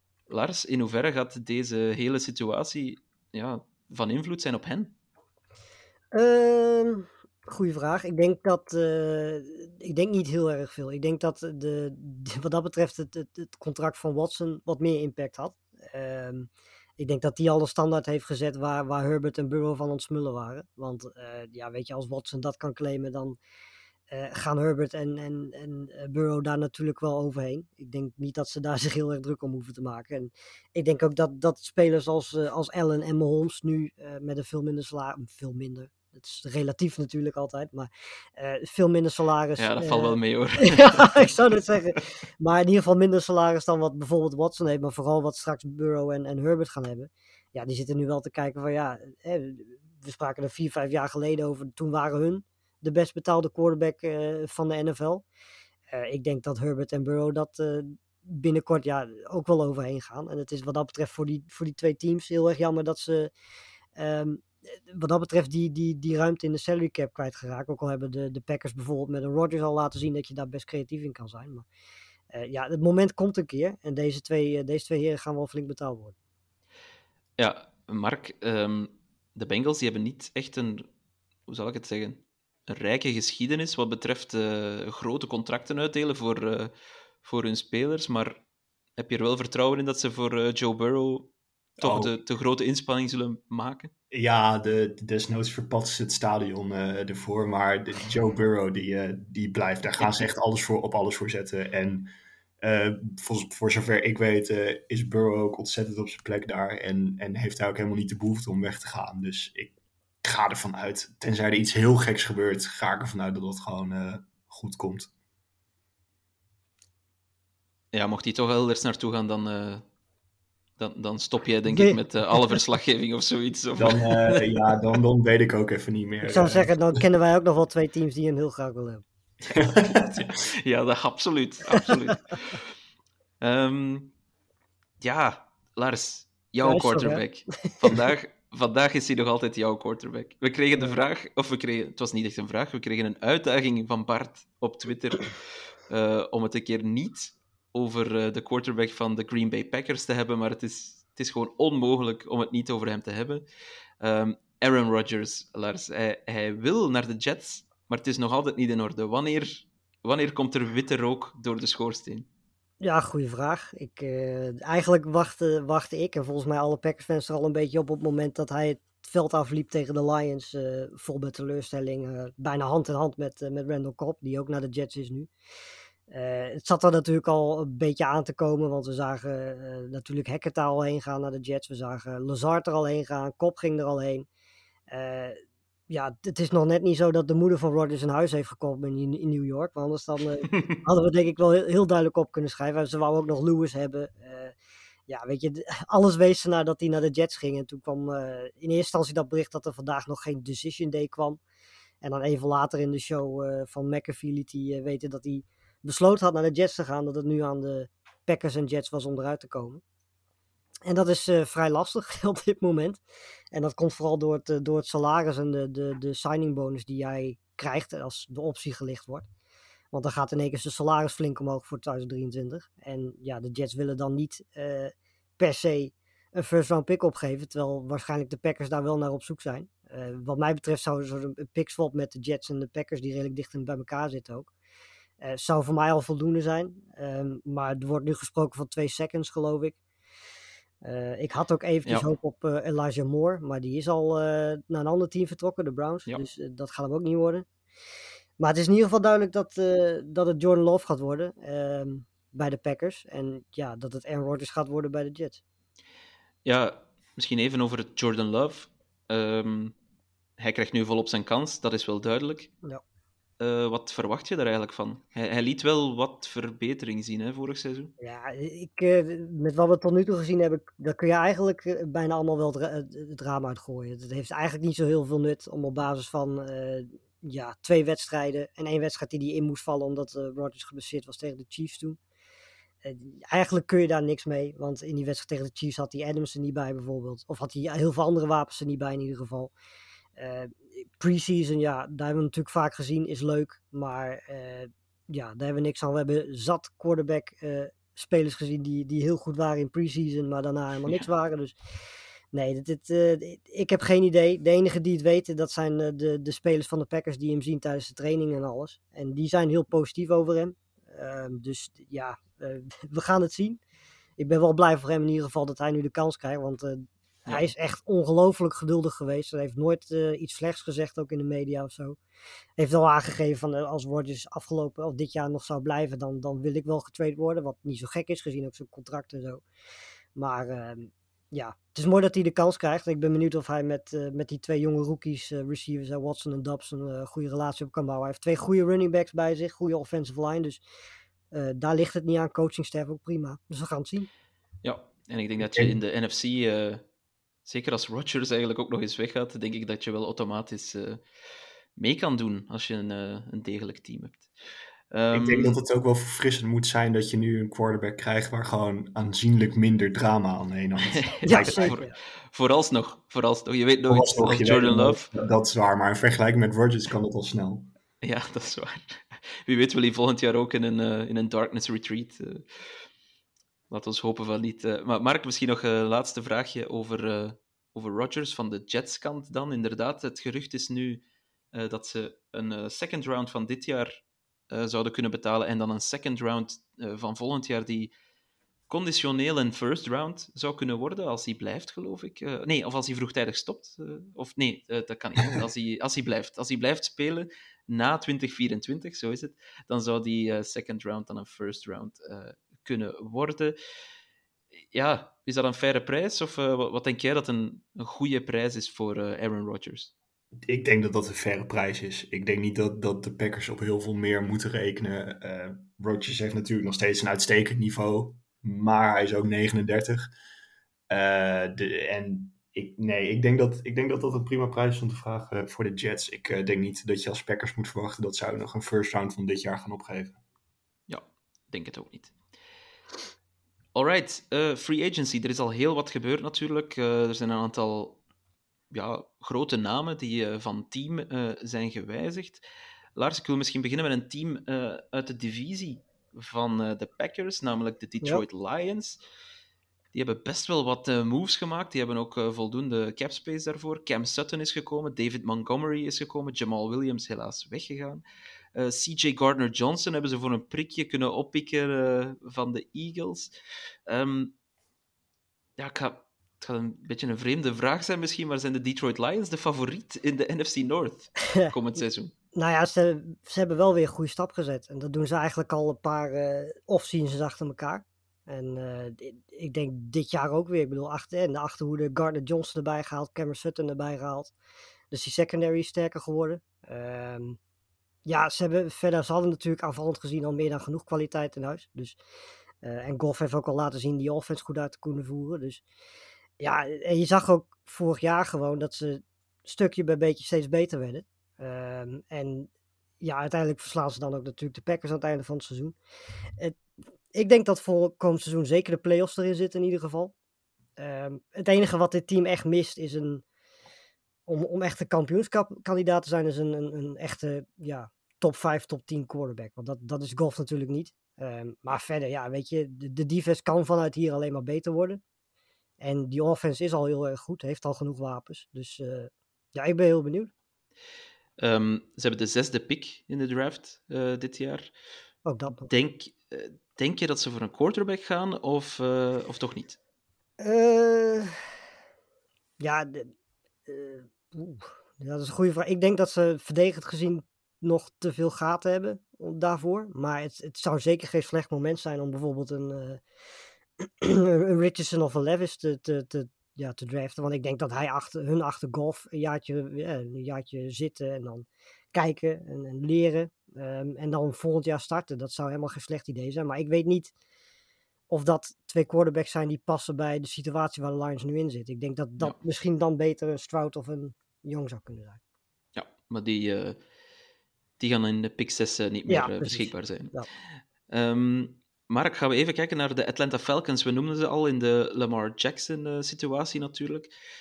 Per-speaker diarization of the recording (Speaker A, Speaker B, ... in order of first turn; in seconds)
Speaker A: 0.3-4.9, 39.6-41.2, 77.4-80.9, 81.5-86.7, 87.2-88.4, 89.0-93.9, 117.9-119.8, 120.8-124.5, 129.4-132.6, 133.4-134.1, 135.0-145.4, 145.9-153.4, 154.0-162.3, 256.4-259.7, 260.4-262.5, 263.4-267.9, 344.6-346.9, 347.4-351.0, 351.8-354.3, 354.9-355.6, 360.9-365.1, 368.0-372.6, 373.7-381.0, 381.5-384.0, 384.5-387.9, 388.7-403.5, 404.7-409.9, 430.9-432.1, 433.8-438.0, 438.7-442.4, 443.0-449.0, 449.9-458.0, 458.6-463.3, 463.9-464.3, 465.6-472.1, 531.4-534.7, 535.7-539.8, 575.8-576.8, 577.8-580.1, 580.9-587.1
Speaker B: 6.1-23.4, 24.1-55.2, 55.9-63.3, 64.0-71.7, 72.3-76.2, 121.7-122.5, 126.3-129.0, 136.6-137.7, 162.8-175.3, 176.1-184.3, 184.9-194.5, 195.1-201.4, 202.0-209.8, 210.9-213.0, 213.5-219.2, 219.9-234.5, 235.2-239.8, 240.8-247.5, 248.4-255.4, 268.0-282.0, 282.8-289.5, 290.2-301.6, 302.3-313.6, 314.2-322.0, 322.6-329.4, 330.1-340.6, 341.3-344.1, 361.2-361.9, 472.4-484.3, 484.9-487.4, 488.1-492.0, 492.6-495.6, 496.4-502.5, 503.0-505.8, 507.1-510.1, 510.8-513.2, 514.3-525.0, 525.8-530.3, 535.3-535.7, 540.4-541.4, 542.6-543.1, 543.7-553.0, 553.8-567.1, 568.1-575.2, 579.1-580.3
Speaker C: 91.8-92.2, 94.1-115.1, 123.8-126.8, 129.5-130.3, 345.4-345.8, 355.1-361.8, 363.9-367.7, 410.4-420.1, 420.9-430.2